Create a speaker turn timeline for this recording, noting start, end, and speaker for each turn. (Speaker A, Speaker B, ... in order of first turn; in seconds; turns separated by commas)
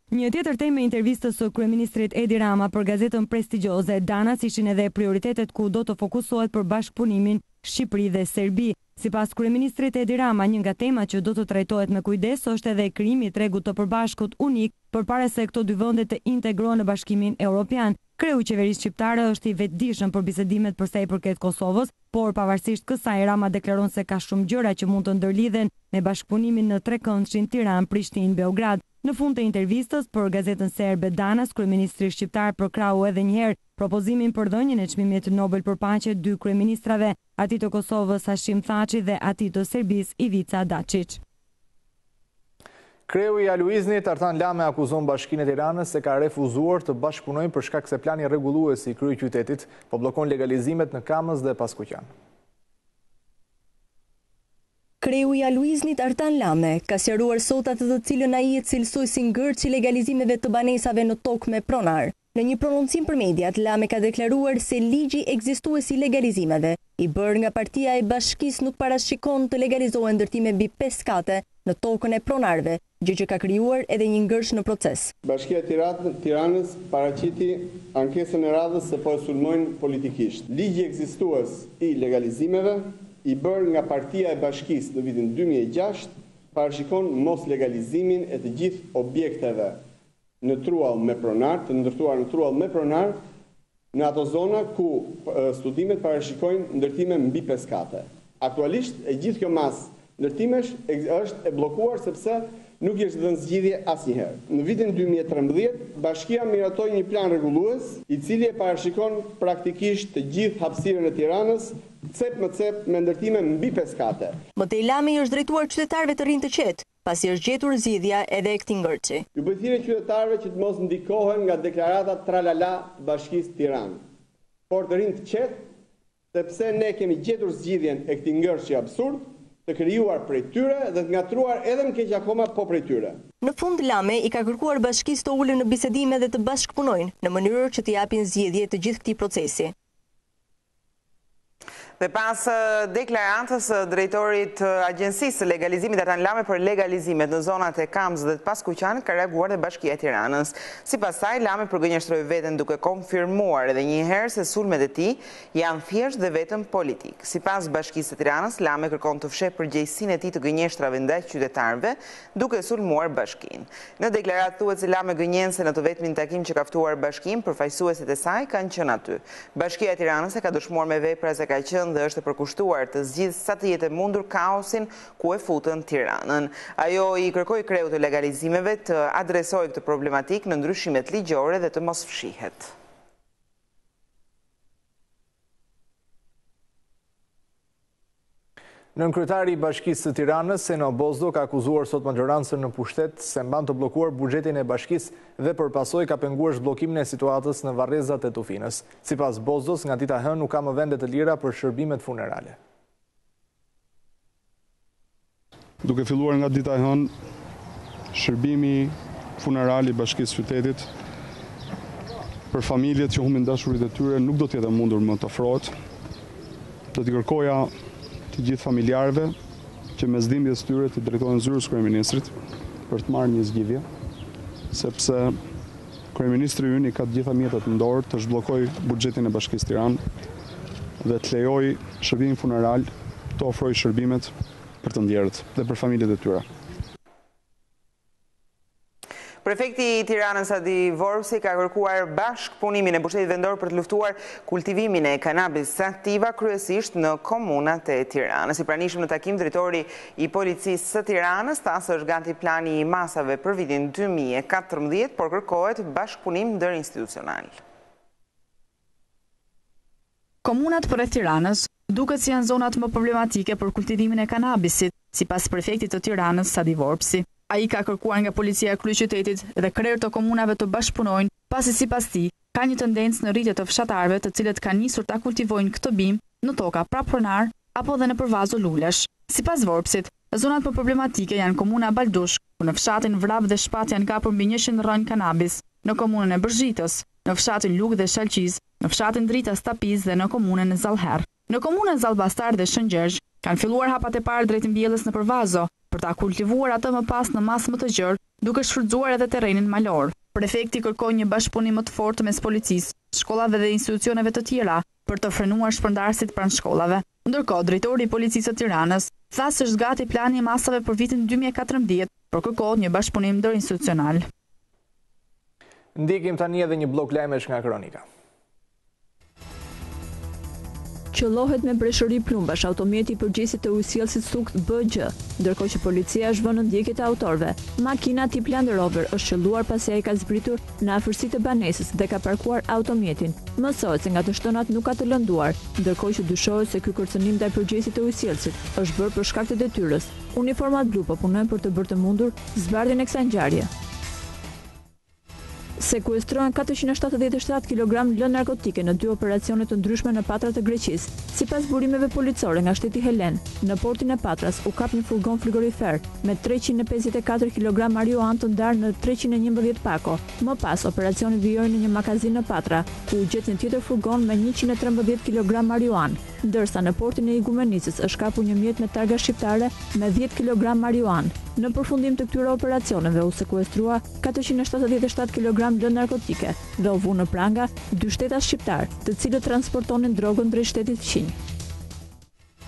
Speaker A: 0.1-41.2, Speaker B: 43.1-52.1, Speaker C: 55.0-75.1, Speaker D: 75.2-89.8, Speaker D: 90.4-93.2, Speaker D: 93.9-114.4, Speaker C: 114.6-119.2, Speaker D: 119.3-124.0, Speaker D: 124.7-125.6, Speaker D: 126.3-133.2, Speaker C: 133.4-139.7, Speaker E: 142.0-182.7, Speaker B: 188.9-202.6, Speaker F: 205.8-207.1, Speaker F: 208.1-210.9, Speaker F: 212.5-215.7, Speaker F: 216.9-217.7, Speaker F: 218.3-219.4, Speaker F: 219.9-222.3, Speaker F: 222.9-223.8, Speaker F: 224.7-225.4, Speaker F: 226.1-230.0, Speaker F: 231.0-234.3, Speaker F: 234.8-236.4, Speaker E: 239.4-257.5, Speaker G: 260.4-314.2, Speaker B: 315.9-318.0, Speaker H: 321.1-343.7, Speaker H: 345.8-381.3